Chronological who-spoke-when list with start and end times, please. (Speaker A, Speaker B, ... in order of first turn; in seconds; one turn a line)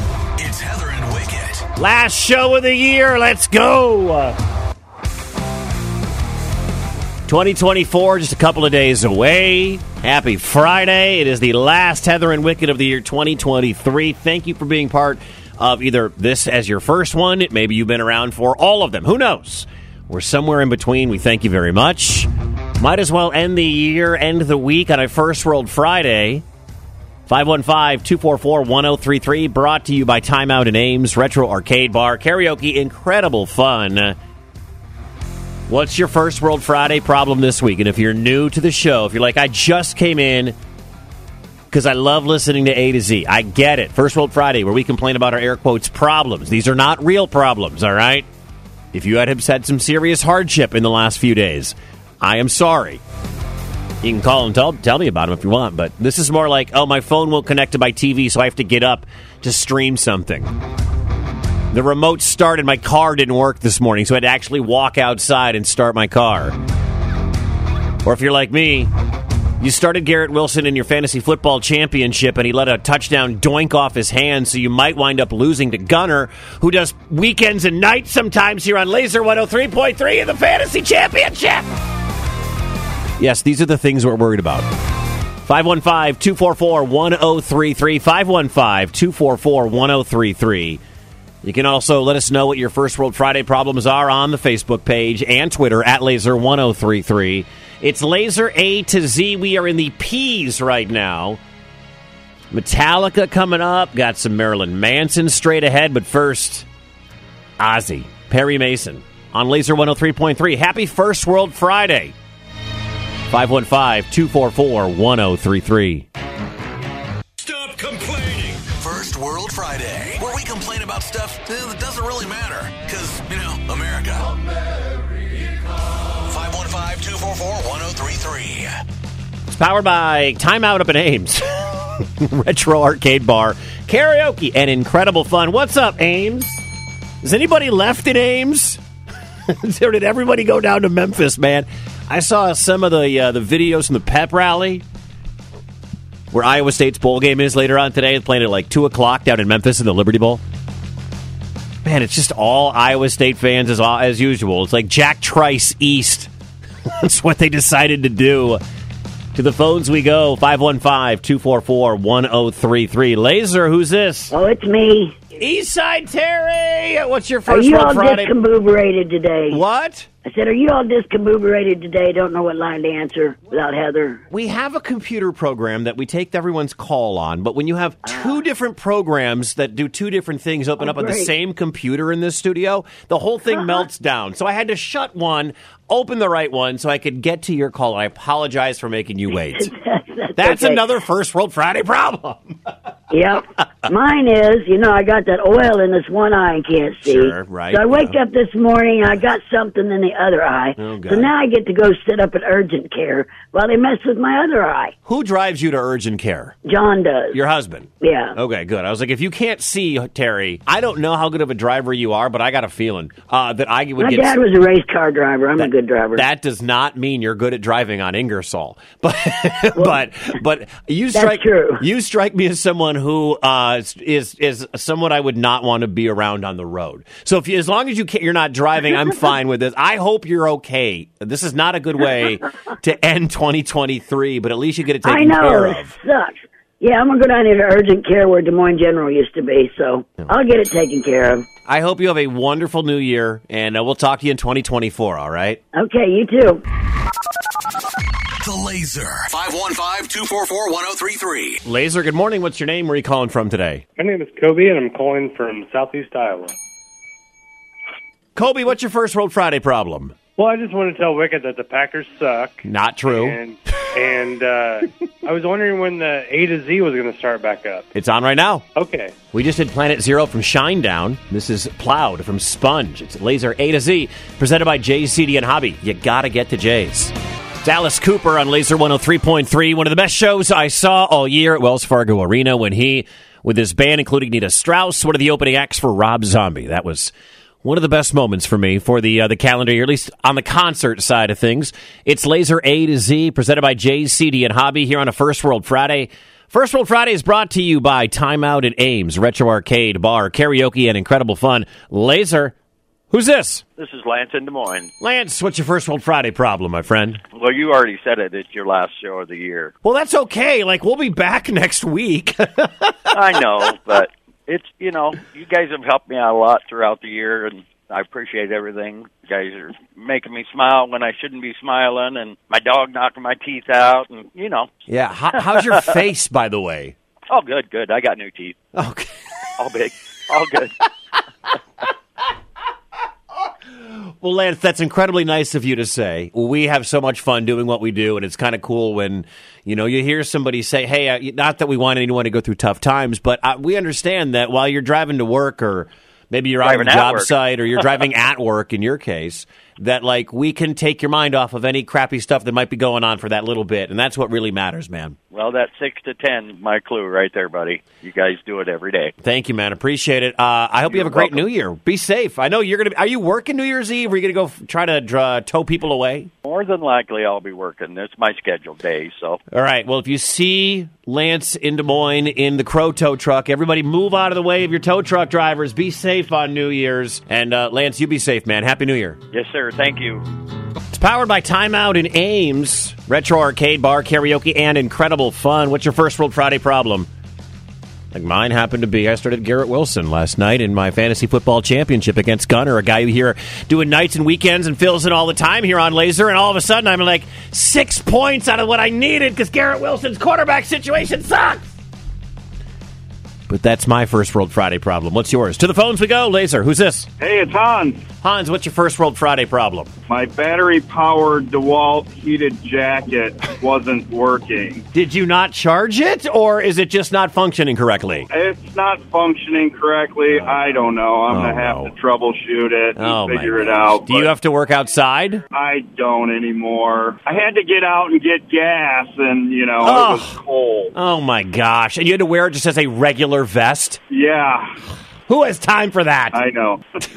Speaker A: 0.4-1.6
Speaker B: 1.8-4.4
Speaker B: 7.3-26.4
Speaker B: 27.3-34.2
Speaker B: 35.7-40.5
Speaker B: 41.7-48.3
Speaker B: 48.9-53.0
Speaker B: 54.0-60.5
Speaker B: 61.7-66.6
Speaker B: 68.0-68.9
Speaker B: 69.6-81.7
Speaker B: 83.2-84.7
Speaker B: 85.4-90.8
Speaker B: 91.4-101.4
Speaker B: 102.5-106.7
Speaker B: 107.6-112.1
Speaker B: 113.3-116.1
Speaker A: 117.5-124.3
Speaker A: 126.2-128.7
Speaker B: 129.5-136.6
Speaker B: 137.2-138.8
Speaker B: 139.5-144.8
Speaker B: 146.3-150.4
Speaker B: 151.8-156.3
Speaker B: 156.9-158.6
Speaker B: 159.3-164.4
Speaker C: 164.3-165.2
Speaker B: 165.4-168.3
Speaker C: 167.5-169.6
Speaker B: 169.5-170.1
Speaker C: 170.2-174.2
Speaker B: 174.3-189.7
Speaker C: 178.1-178.4
Speaker C: 180.8-181.3
Speaker C: 189.3-190.8
Speaker B: 190.4-192.8
Speaker C: 193.1-204.9
Speaker B: 197.1-198.2
Speaker B: 200.8-201.3
Speaker B: 205.1-206.6
Speaker C: 206.7-207.4
Speaker B: 207.3-214.4
Speaker C: 208.0-208.4
Speaker C: 214.0-216.2
Speaker B: 215.6-236.0
Speaker C: 221.1-221.8
Speaker C: 235.0-241.5
Speaker B: 241.7-245.6
Speaker C: 245.7-246.6
Speaker A: 248.4-251.6
Speaker B: 251.7-253.8
Speaker D: 254.0-256.5
Speaker B: 258.4-260.1
Speaker D: 260.4-267.9
Speaker B: 262.6-263.4
Speaker B: 267.9-268.6
Speaker D: 268.8-269.1
Speaker B: 269.3-287.1
Speaker B: 287.6-302.5
Speaker B: 303.1-303.6
Speaker E: 303.8-304.9
Speaker B: 305.0-307.2
Speaker E: 307.3-309.7
Speaker B: 309.8-313.1
Speaker E: 313.1-324.7
Speaker B: 324.9-326.9
Speaker E: 325.6-325.9
Speaker E: 327.3-328.6
Speaker B: 328.7-329.1
Speaker E: 329.6-330.7
Speaker B: 333.7-355.2
Speaker E: 346.6-348.0
Speaker E: 355.3-359.1
Speaker B: 359.2-366.3
Speaker E: 360.9-361.5
Speaker E: 366.4-369.4
Speaker B: 369.5-379.2
Speaker E: 379.3-380.2
Speaker B: 380.9-387.1
Speaker B: 388.1-401.7
Speaker B: 403.5-407.1
Speaker F: 407.2-408.1
Speaker B: 408.2-409.9
Speaker F: 410.1-414.9
Speaker B: 414.9-418.3
Speaker F: 418.3-424.4
Speaker B: 420.3-420.6
Speaker B: 421.3-421.9
Speaker B: 423.0-425.4
Speaker F: 425.5-430.9
Speaker B: 429.9-430.4
Speaker B: 430.9-434.0
Speaker F: 434.1-434.8
Speaker B: 435.3-436.4
Speaker F: 436.3-437.0